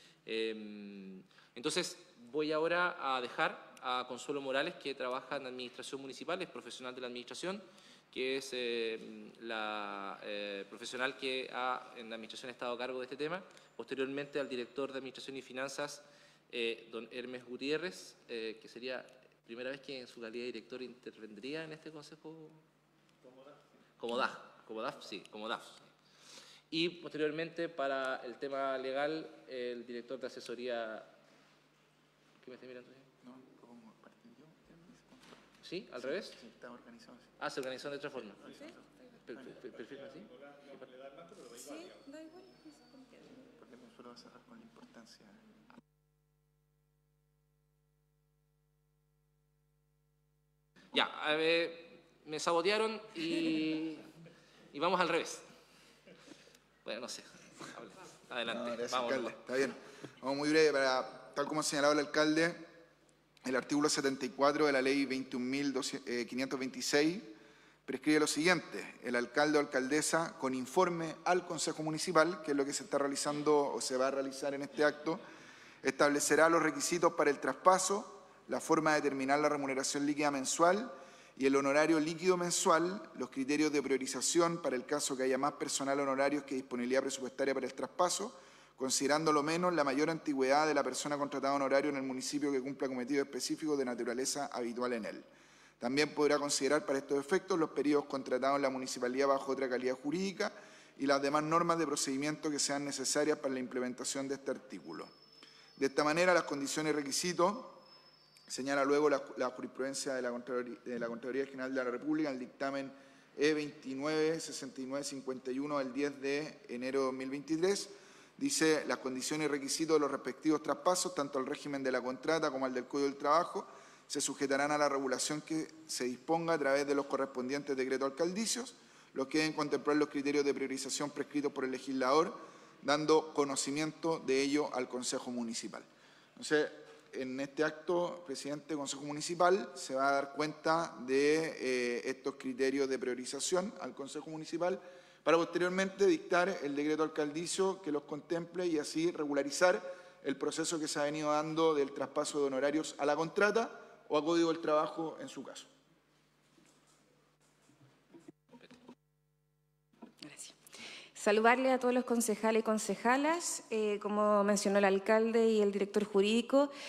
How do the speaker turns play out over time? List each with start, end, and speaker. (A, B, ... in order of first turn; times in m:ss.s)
0:00.2-0:22.6 A
0:24.0-0:25.9 A
0:26.7-0:31.1 A
0:32.4-0:33.1 A
0:33.2-0:35.1 B
0:35.6-0:36.4 A
0:36.3-0:37.2 B
0:37.4-0:38.5 A
0:39.2-0:40.3 A
0:43.6-0:45.4 B
0:50.9-0:54.1 A
0:54.7-0:55.4 A
0:56.8-0:59.4 A
0:58.5-1:02.6 B
1:03.4-1:07.3 B
1:07.8-1:15.2 B
1:15.8-1:35.2 B
1:35.8-1:45.1 B
1:45.8-1:47.8 B
1:48.5-2:35.7 B
2:40.3-2:40.5 C
2:41.2-2:46.7 C